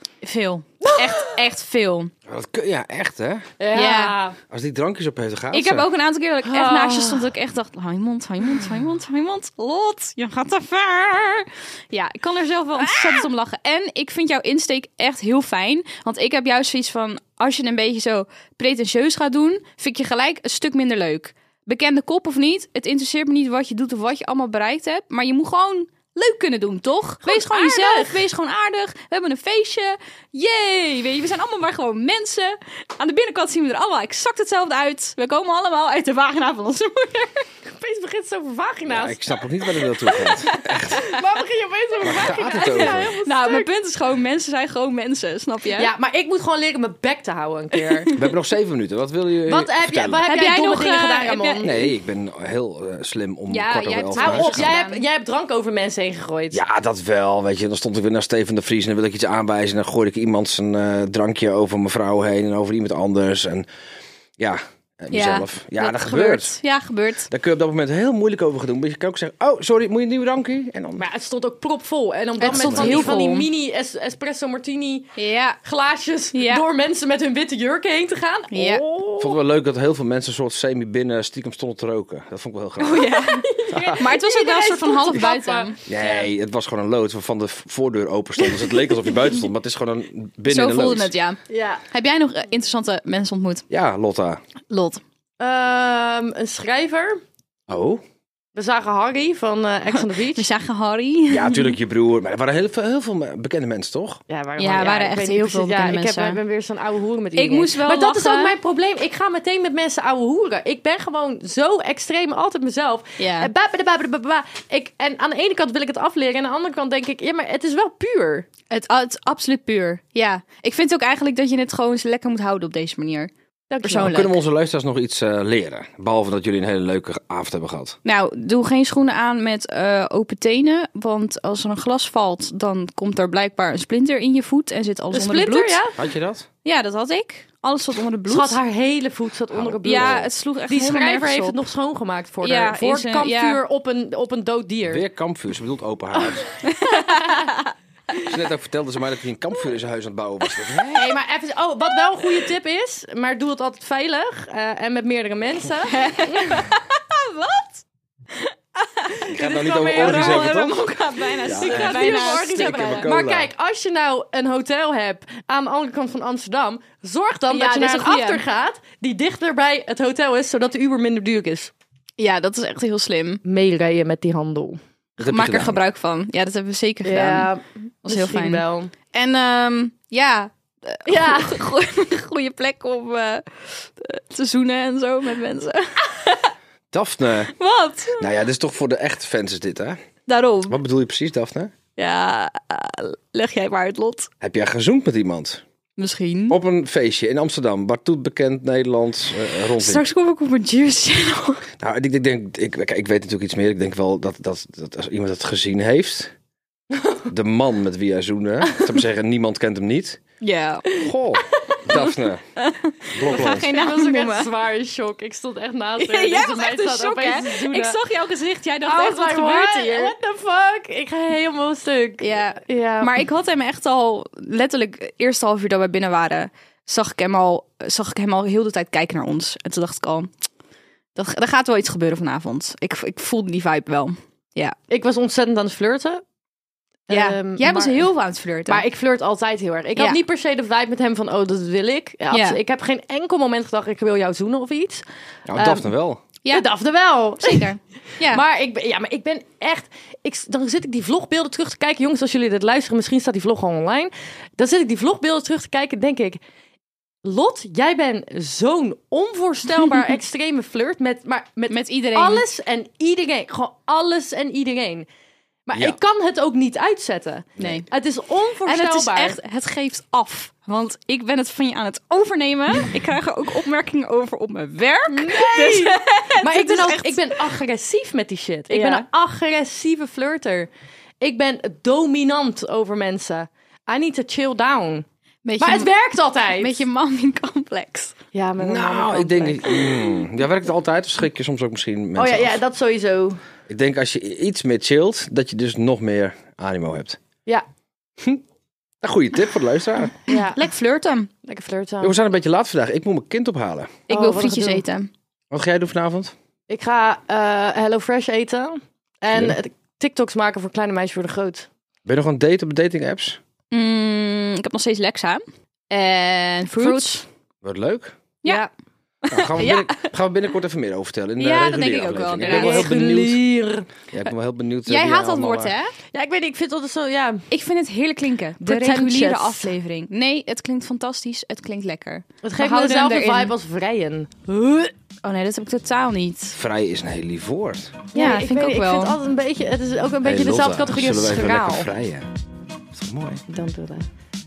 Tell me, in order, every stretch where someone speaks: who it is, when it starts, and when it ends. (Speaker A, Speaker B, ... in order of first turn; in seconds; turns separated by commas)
Speaker A: 0.2-2.1, Speaker B: 0.8-1.3, Speaker C: 2.3-3.5, Speaker B: 3.6-4.4, Speaker A: 3.7-4.2, Speaker C: 4.5-5.9, Speaker A: 5.5-37.5, Speaker B: 6.5-7.3, Speaker B: 27.2-28.2, Speaker B: 37.6-39.4, Speaker C: 38.9-41.0, Speaker A: 39.9-41.0, Speaker B: 40.5-43.7, Speaker C: 42.0-43.1, Speaker A: 42.5-45.9, Speaker B: 45.8-48.1, Speaker A: 47.7-48.3, Speaker C: 48.1-50.3, Speaker B: 49.5-51.9, Speaker A: 50.2-51.8, Speaker C: 51.6-54.8, Speaker A: 53.5-55.0, Speaker B: 54.1-56.6, Speaker C: 56.5-63.7, Speaker C: 64.4-66.6, Speaker A: 65.1-67.3, Speaker C: 67.3-71.0, Speaker B: 71.0-75.1, Speaker A: 72.4-73.5, Speaker C: 72.5-73.2, Speaker A: 75.2-75.6, Speaker B: 75.6-79.4, Speaker A: 76.3-76.6, Speaker A: 78.5-78.8, Speaker C: 79.2-83.1, Speaker A: 82.8-85.8, Speaker B: 83.0-86.3, Speaker C: 83.7-84.0, Speaker C: 85.9-91.1, Speaker A: 90.5-93.7, Speaker B: 91.5-91.8, Speaker C: 93.7-94.4, Speaker A: 94.7-95.0, Speaker B: 95.4-97.2, Speaker C: 97.7-98.0, Speaker B: 98.5-100.5, Speaker A: 99.9-101.8, Speaker C: 101.3-104.2, Speaker B: 104.3-118.5, Speaker A: 104.6-106.4, Speaker A: 107.4-108.5, Speaker A: 113.2-113.5, Speaker A: 118.7-123.3, Speaker B: 123.7-124.3, Speaker A: 123.8-124.3, Speaker C: 124.0-128.0, Speaker A: 128.1-135.8, Speaker B: 135.1-136.0, Speaker C: 136.0-136.5, Speaker A: 136.7-138.6, Speaker B: 138.3-145.0, Speaker C: 139.5-140.3, Speaker A: 139.8-141.6, Speaker A: 142.4-143.6, Speaker C: 144.9-146.5, Speaker B: 146.2-147.4, Speaker A: 146.6-148.2, Speaker C: 148.2-151.1, Speaker B: 150.9-156.7, Speaker A: 155.9-157.8, Speaker A: 158.3-163.1, Speaker C: 159.3-160.9, Speaker B: 159.3-160.7, Speaker C: 161.4-163.5, Speaker B: 161.4-171.7, Speaker A: 167.5-168.4, Speaker A: 172.2-173.4, Speaker B: 173.4-174.8, Speaker C: 175.2-175.8, Speaker A: 175.2-177.5, Speaker B: 177.0-178.9, Speaker A: 178.1-186.5, Speaker B: 181.1-181.6, Speaker C: 186.9-187.5, Speaker A: 187.6-188.3, Speaker C: 188.2-190.0, Speaker A: 190.3-190.8, Speaker C: 190.7-191.7, Speaker A: 192.0-194.3, Speaker C: 194.4-195.6, Speaker A: 196.0-196.6, Speaker C: 196.5-200.1, Speaker A: 199.8-201.7, Speaker C: 201.8-206.3, Speaker C: 207.3-210.2, Speaker A: 210.4-211.0, Speaker C: 211.0-212.4, Speaker A: 212.0-214.5, Speaker C: 213.2-213.7, Speaker B: 213.3-218.0, Speaker A: 216.0-220.2, Speaker B: 218.8-223.1, Speaker A: 222.2-230.3, Speaker A: 231.2-234.8, Speaker B: 234.9-236.2, Speaker B: 237.1-238.1, Speaker A: 237.1-238.9, Speaker B: 238.7-245.9, Speaker A: 242.3-242.6, Speaker C: 245.5-246.2, Speaker B: 246.5-247.7, Speaker A: 247.4-248.4, Speaker B: 248.2-256.4, Speaker B: 257.2-265.1, Speaker A: 259.8-260.1, Speaker A: 261.7-262.4, Speaker B: 265.7-269.4, Speaker A: 267.6-267.9, Speaker A: 268.6-277.6, Speaker B: 275.1-285.1, Speaker A: 278.7-279.1, Speaker A: 285.4-285.9, Speaker B: 285.6-286.8, Speaker A: 286.6-288.1, Speaker B: 288.3-290.1, Speaker C: 288.6-292.6, Speaker B: 292.2-293.4, Speaker C: 293.7-297.2, Speaker C: 299.0-300.2, Speaker B: 300.3-300.6, Speaker A: 300.3-301.3, Speaker B: 301.4-302.2, Speaker C: 302.0-304.0, Speaker B: 304.1-304.9, Speaker A: 304.1-305.1, Speaker C: 305.5-306.3, Speaker B: 306.7-311.7, Speaker C: 309.3-309.6, Speaker C: 312.1-313.4, Speaker A: 313.7-317.3, Speaker B: 316.8-317.2, Speaker C: 317.6-318.1, Speaker A: 318.4-318.7, Speaker A: 319.3-320.1, Speaker C: 319.3-323.4, Speaker A: 321.4-322.9, Speaker B: 322.4-323.9, Speaker C: 324.1-325.8, Speaker A: 324.9-325.9, Speaker B: 326.1-327.4, Speaker A: 327.5-333.5, Speaker B: 328.6-329.7, Speaker B: 332.4-334.5, Speaker A: 334.5-336.6, Speaker C: 336.6-338.0, Speaker B: 338.1-341.9, Speaker A: 338.1-339.2, Speaker C: 340.2-342.3, Speaker C: 342.9-343.4, Speaker B: 343.5-344.1